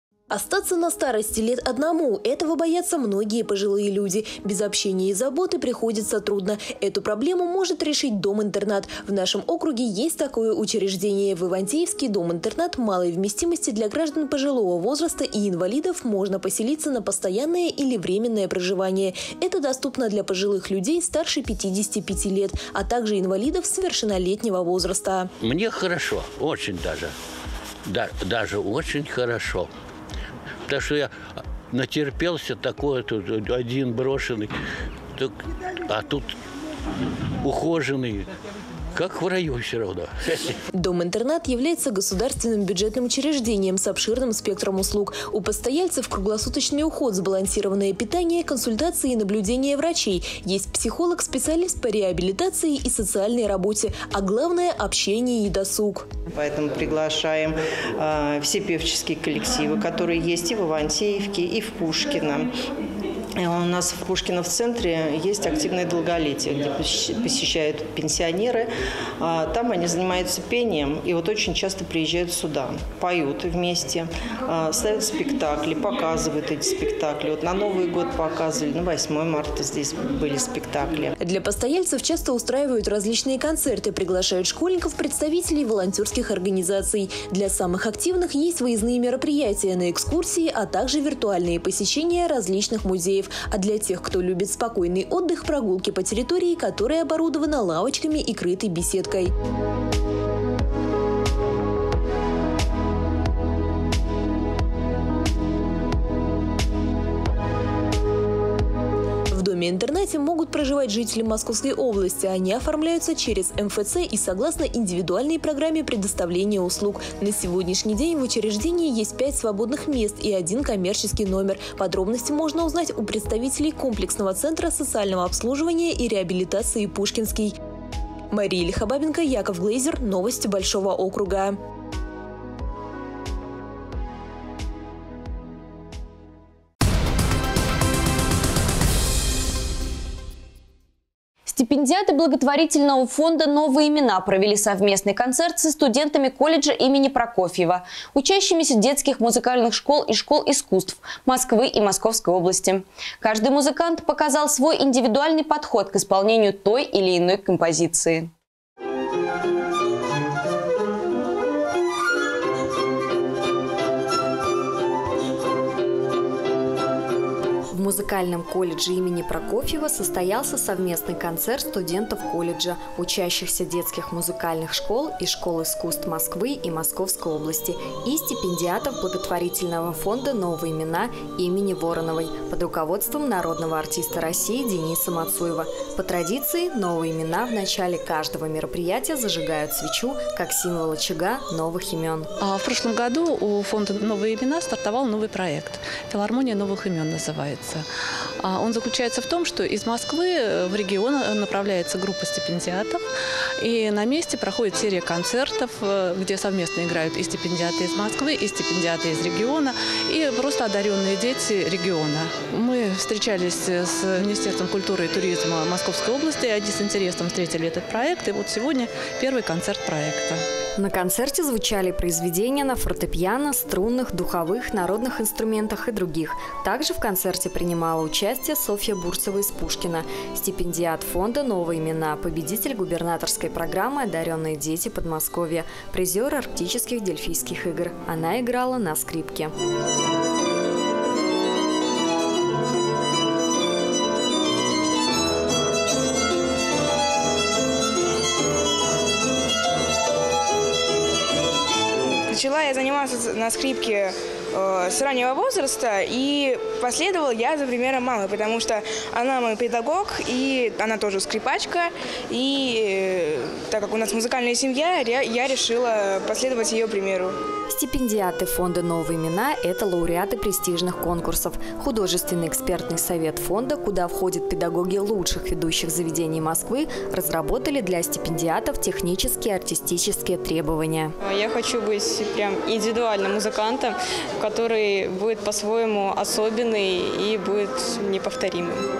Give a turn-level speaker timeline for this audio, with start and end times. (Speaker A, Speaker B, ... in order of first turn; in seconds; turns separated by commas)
Speaker A: 0.3-25.3, Speaker B: 25.4-27.1, Speaker B: 27.9-29.7, Speaker B: 30.7-31.1, Speaker B: 31.7-34.5, Speaker B: 35.9-36.3, Speaker B: 37.4-38.3, Speaker B: 38.9-40.5, Speaker A: 40.7-56.1, Speaker C: 56.4-62.5, Speaker C: 63.4-68.7, Speaker C: 69.2-81.1, Speaker A: 81.2-99.3, Speaker A: 109.3-127.5, Speaker A: 128.3-131.6, Speaker D: 141.5-158.3, Speaker E: 167.7-192.3, Speaker F: 192.4-197.8, Speaker F: 198.4-203.0, Speaker F: 203.6-220.4, Speaker E: 220.8-239.5, Speaker G: 252.3-267.4, Speaker E: 267.7-281.1, Speaker H: 281.2-288.8